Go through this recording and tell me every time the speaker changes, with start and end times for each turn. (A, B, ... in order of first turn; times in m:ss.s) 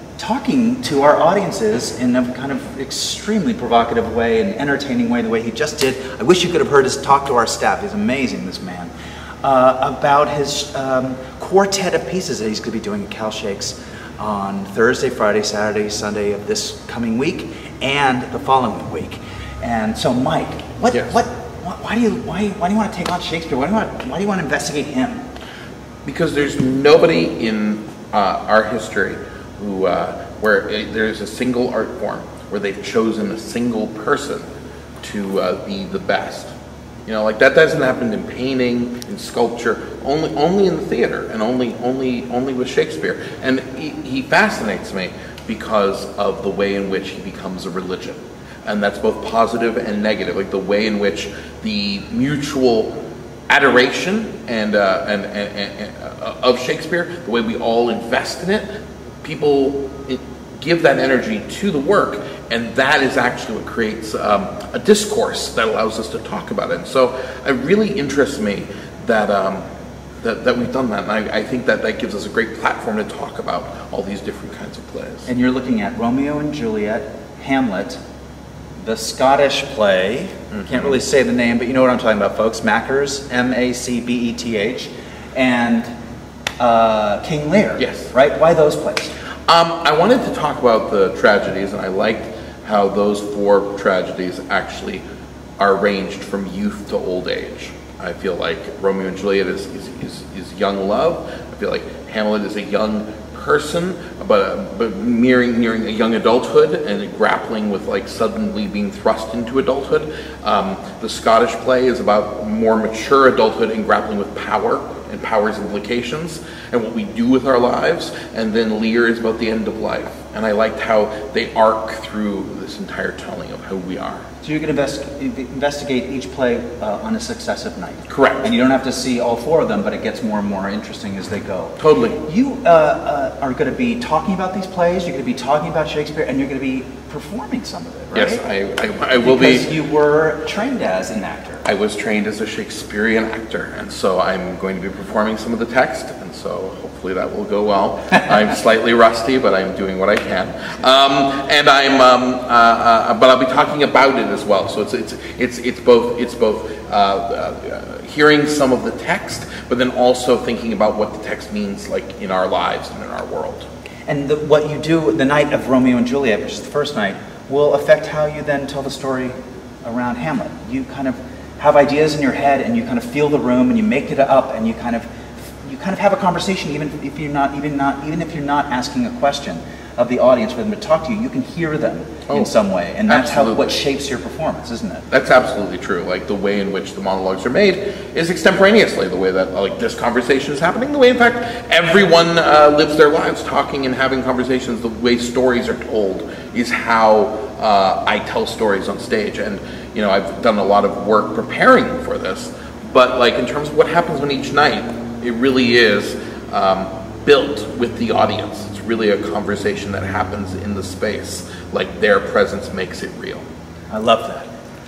0:00.2-0:08.9 A
0:09.4-0:25.2 A
0:26.0-0:34.4 B
0:35.0-0:36.5 B
0:37.0-0:53.0 B
0:53.5-0:58.7 B
0:59.2-1:09.6 B
1:10.2-1:15.3 B
1:15.2-1:18.0 A
1:18.8-1:25.9 A
1:20.5-1:20.9 B
1:26.6-1:29.1 A
1:27.8-1:28.1 B
1:29.5-1:35.0 B
1:35.6-2:04.2 B
2:04.4-2:18.4 A
2:08.1-2:08.5 B
2:11.8-2:12.2 B
2:18.1-2:19.7 B
2:19.2-2:21.6 A
2:21.6-2:43.7 B
2:44.1-2:55.1 A
2:55.6-3:05.0 A
3:03.1-3:03.8 B
3:05.1-3:33.4 B
3:33.9-3:34.5 A